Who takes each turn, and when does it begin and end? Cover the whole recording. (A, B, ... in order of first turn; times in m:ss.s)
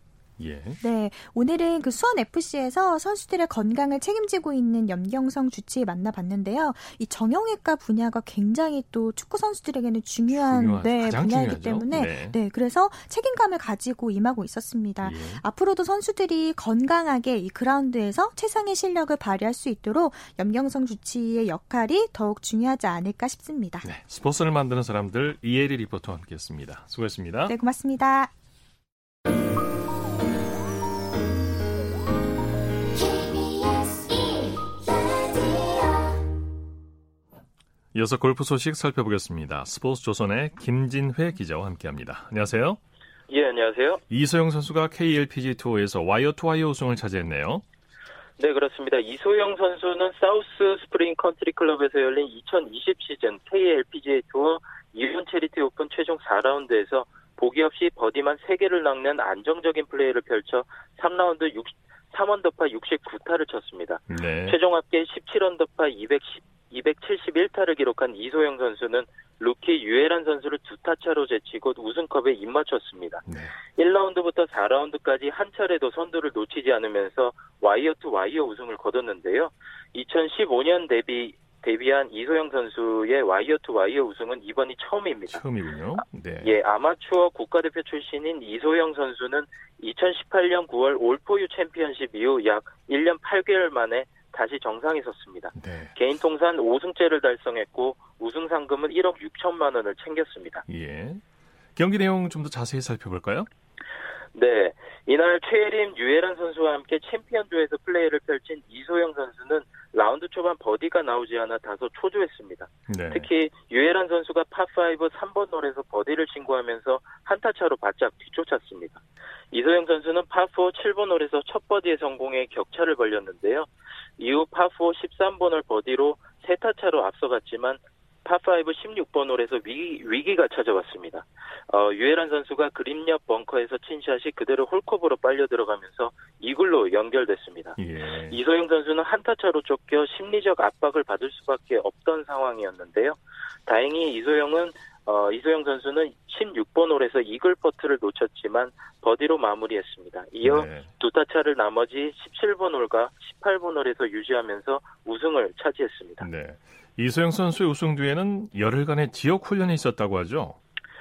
0:00.4-0:00.8 A
0:00.8-0:23.9 B
0:10.3-0:12.3 A
0:15.0-0:15.4 A
0:23.8-0:27.5 A
0:27.5-0:28.3 B
0:37.9-0:42.8 A
0:43.3-0:44.0 C
0:44.1-0:47.6 A
0:48.4-1:13.2 C
1:04.1-1:04.6 A
1:13.2-1:13.5 A
1:13.8-1:25.4 C
1:25.3-1:26.6 A
1:26.4-1:40.6 C
1:35.5-1:35.9 A
1:40.7-1:41.2 A
1:41.8-1:43.5 A
1:44.3-2:17.8 C
1:52.9-1:53.3 A
2:17.8-2:18.4 A
2:18.3-2:36.2 C
2:30.4-2:30.9 A
2:36.2-2:40.6 A